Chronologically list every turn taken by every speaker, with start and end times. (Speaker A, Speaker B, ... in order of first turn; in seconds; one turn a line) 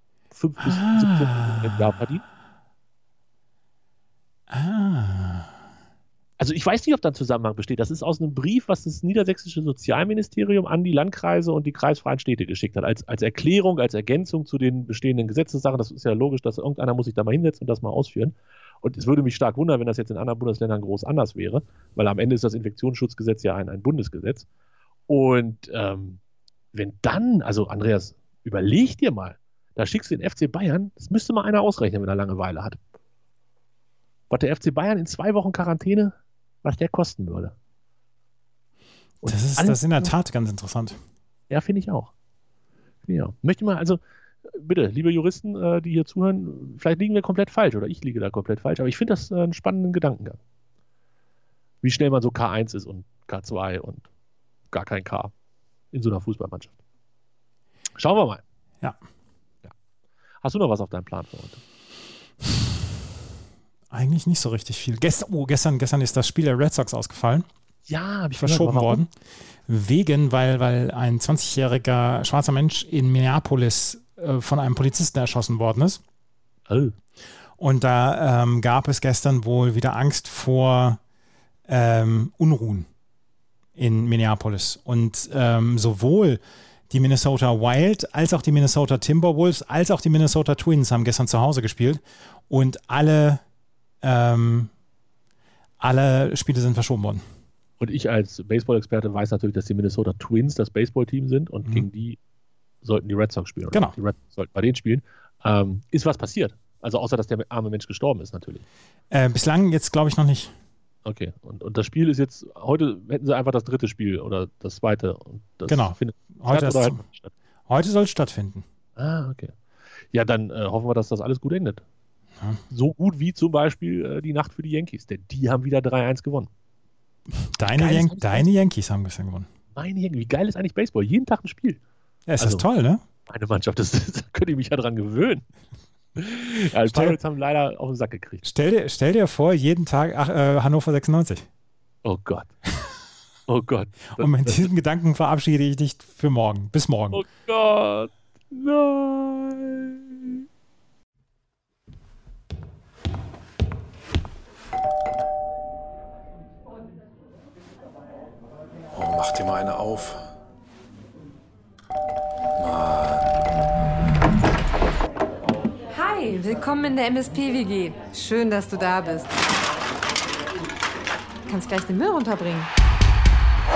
Speaker A: 0.3-2.2
Speaker B: 0.6-1.9
Speaker B: 4.5-5.5
Speaker A: 6.4-24.4
Speaker A: 25.1-26.2
Speaker A: 26.7-32.8
Speaker A: 34.3-37.5
Speaker A: 39.2-40.1
Speaker B: 39.2-41.0
Speaker A: 41.5-42.1
Speaker A: 43.0-50.4
Speaker A: 51.8-54.1
Speaker A: 54.7-55.3
Speaker A: 55.9-56.7
Speaker A: 58.0-58.4
Speaker A: 60.4-61.6
Speaker B: 63.9-67.5
Speaker A: 67.9-69.0
Speaker B: 68.4-69.1
Speaker B: 69.7-76.0
Speaker A: 76.7-76.9
Speaker B: 77.6-81.0
Speaker B: 81.7-82.9
Speaker B: 83.8-93.4
Speaker B: 94.0-94.7
Speaker B: 95.8-97.2
Speaker A: 97.8-102.2
Speaker A: 102.8-108.6
Speaker B: 109.1-110.5
Speaker A: 111.0-117.3
Speaker B: 115.7-117.0
Speaker B: 117.7-118.6
Speaker A: 119.0-119.5
Speaker A: 120.1-121.8
Speaker A: 122.7-126.5
Speaker B: 127.5-129.5
Speaker A: 127.7-128.5
Speaker A: 129.8-131.8
Speaker B: 132.3-133.0
Speaker A: 132.4-132.6
Speaker A: 133.3-135.4
Speaker A: 136.2-138.4
Speaker B: 136.9-137.2
Speaker B: 138.4-141.4
Speaker A: 142.0-142.5
Speaker A: 143.5-144.7
Speaker B: 144.2-147.2
Speaker A: 147.1-150.4
Speaker C: 158.9-160.2
Speaker C: 162.6-163.2
Speaker D: 165.9-169.4
Speaker D: 171.5-172.7